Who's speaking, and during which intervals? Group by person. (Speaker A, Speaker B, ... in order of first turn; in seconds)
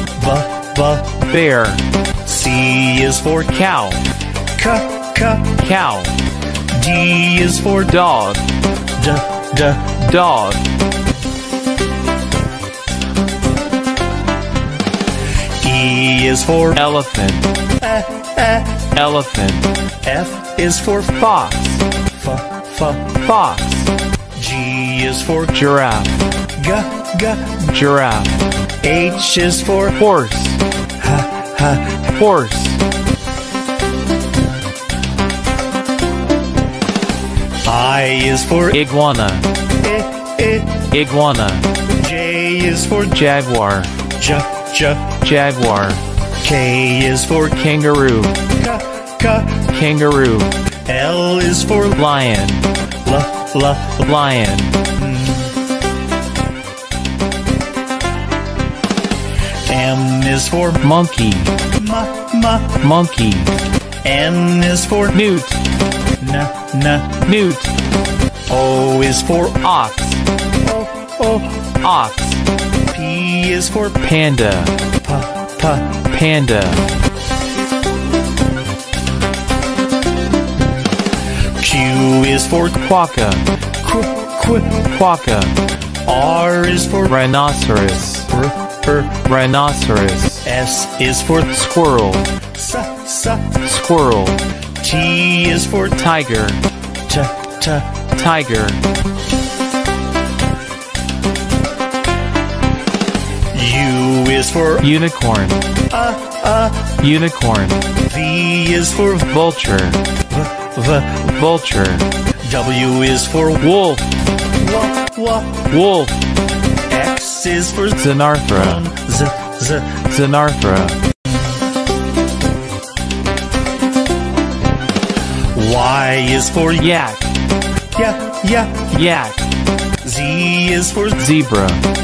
Speaker A: 0.2-1.2, 2.2-3.5, 4.5-5.6, 6.7-7.9, 9.0-10.0, 15.5-16.8, 17.8-18.9, 20.0-21.2, 22.1-23.1, 24.3-25.6, 26.6-27.7, 28.8-30.0, 31.0-32.1, 37.6-38.8, 39.8-40.9, 41.9-43.2, 44.1-45.2, 46.4-47.6, 48.5-49.6, 50.9-52.0, 53.0-54.0, 55.0-55.5, 59.6-60.8, 61.7-62.8, 64.0-65.1, 66.2-67.2, 68.5-69.6, 70.6-71.1, 72.9-74.0, 75.0-76.0, 81.5-82.8, 83.8-84.8, 86.0-87.2, 88.3-89.2, 90.4-91.6, 92.4-93.6, 94.8-96.0, 97.1-98.0, 103.5-104.9, 105.9-107.0, 108.0-109.3, 110.3-111.3, 112.4-113.7, 114.5-115.7, 116.9-120.0, 125.5-126.9, 127.9-128.9, 130.0-131.2
Speaker B: 1.2-1.8, 3.5-4.0, 5.5-6.2, 7.8-8.5, 9.9-10.7, 16.8-17.5, 18.9-19.7, 21.1-21.8, 23.1-23.9, 25.5-26.2, 27.6-28.4, 29.9-30.6, 32.0-32.8, 38.7-39.5, 40.8-41.7, 43.1-44.0, 45.1-46.0, 47.6-48.5, 49.6-50.5, 52.0-52.7, 54.0-54.8, 60.8-61.5, 62.8-63.5, 65.1-65.6, 67.2-67.7, 69.6-70.2, 71.2-72.4, 74.0-74.8, 76.0-76.8, 82.7-83.5, 84.6-85.6, 87.1-88.3, 89.2-90.5, 91.5-92.3, 93.6-94.4, 96.0-96.6, 98.1-98.8, 104.8-105.6, 106.9-107.8, 109.3-110.0, 111.2-112.1, 113.6-114.1, 115.6-116.2, 118.0-118.8, 120.0-121.0, 126.8-127.3, 128.9-129.4, 131.2-131.8